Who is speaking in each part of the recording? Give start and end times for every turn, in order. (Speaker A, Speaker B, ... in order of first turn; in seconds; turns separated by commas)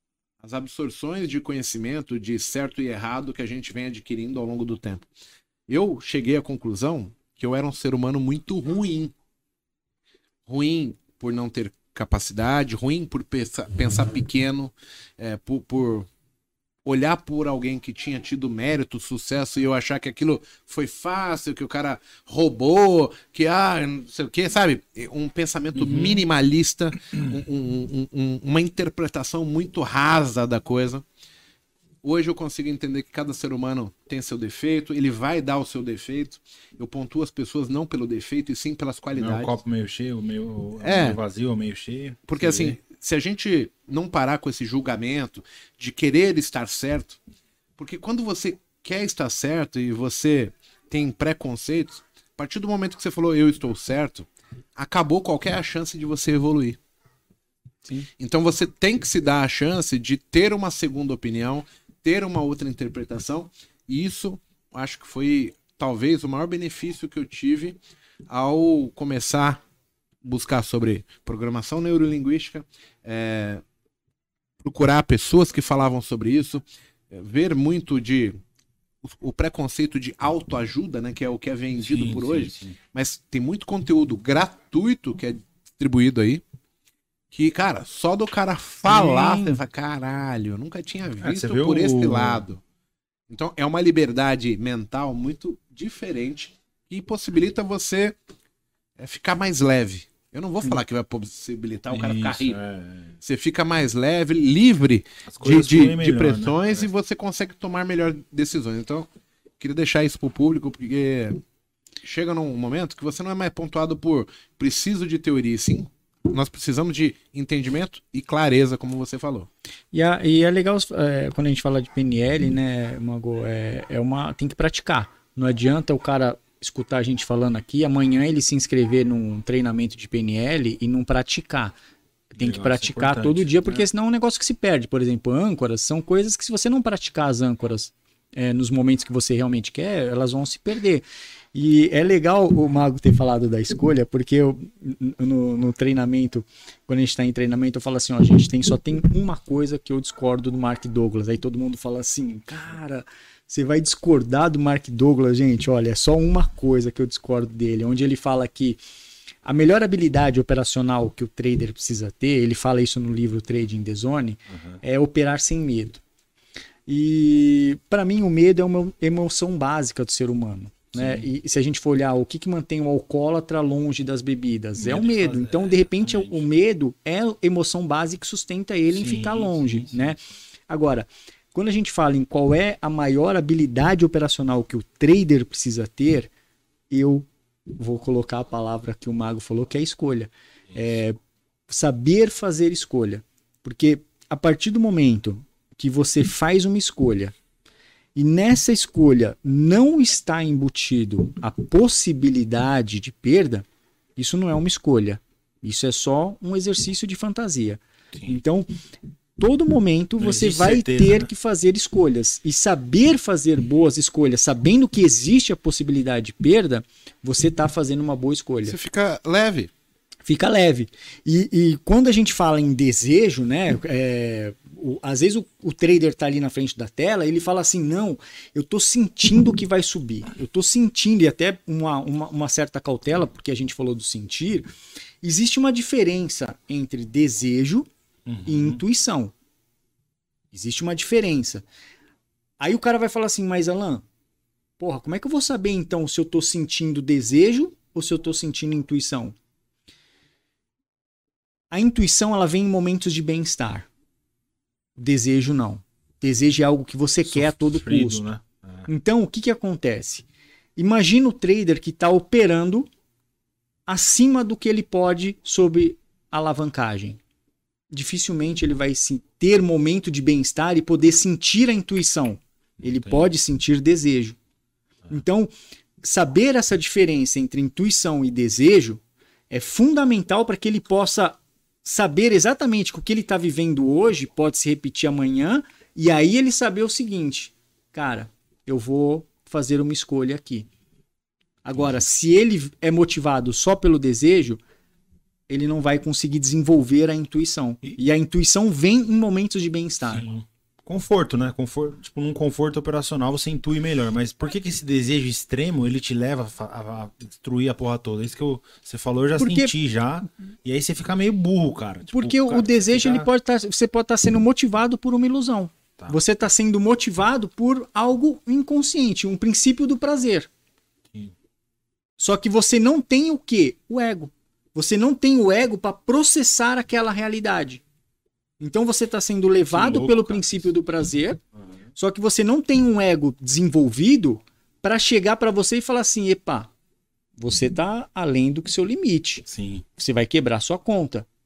Speaker A: 0.4-5.1, Speaker A: 5.7-9.1, Speaker A: 10.5-16.1, Speaker A: 16.9-31.1, Speaker B: 25.8-26.2, Speaker A: 32.0-39.6, Speaker B: 39.1-42.8, Speaker A: 40.8-41.2, Speaker A: 42.3-47.2, Speaker A: 47.8-56.8, Speaker A: 58.2-67.8, Speaker A: 68.3-69.6, Speaker A: 70.2-73.6, Speaker A: 74.6-78.4, Speaker A: 79.0-86.4, Speaker B: 81.8-82.8, Speaker A: 87.3-92.6, Speaker C: 88.9-89.6, Speaker B: 91.2-92.5, Speaker A: 93.3-98.2, Speaker A: 99.0-102.6, Speaker B: 101.9-103.1, Speaker A: 103.2-111.4, Speaker B: 105.3-106.9, Speaker A: 112.0-119.5, Speaker C: 119.9-131.8, Speaker C: 132.3-158.8, Speaker B: 132.4-133.9, Speaker C: 159.4-166.0, Speaker B: 164.5-164.8, Speaker C: 166.9-186.3, Speaker B: 170.9-171.3, Speaker B: 174.8-176.4, Speaker B: 178.9-180.1, Speaker C: 186.9-191.2, Speaker C: 191.7-197.3, Speaker C: 198.2-208.7, Speaker C: 209.4-218.8, Speaker B: 210.2-211.3, Speaker A: 218.7-219.7, Speaker C: 220.3-234.7, Speaker C: 235.2-237.9, Speaker B: 238.3-238.8, Speaker C: 238.5-239.3, Speaker C: 240.5-241.7, Speaker C: 242.6-244.1, Speaker C: 244.8-249.4, Speaker C: 251.7-253.9, Speaker C: 255.0-258.3, Speaker B: 257.3-258.9, Speaker C: 258.9-262.9, Speaker C: 263.9-267.2, Speaker C: 267.9-274.4, Speaker B: 272.8-273.3, Speaker C: 275.1-275.5, Speaker C: 276.0-290.7, Speaker C: 291.6-294.6, Speaker C: 295.5-300.2, Speaker B: 300.1-313.3, Speaker C: 309.4-309.7, Speaker C: 312.1-320.5, Speaker C: 322.2-327.8, Speaker C: 328.6-331.4, Speaker B: 329.7-330.7, Speaker C: 332.0-336.7, Speaker C: 337.4-339.5, Speaker B: 339.5-339.8, Speaker C: 340.0-341.3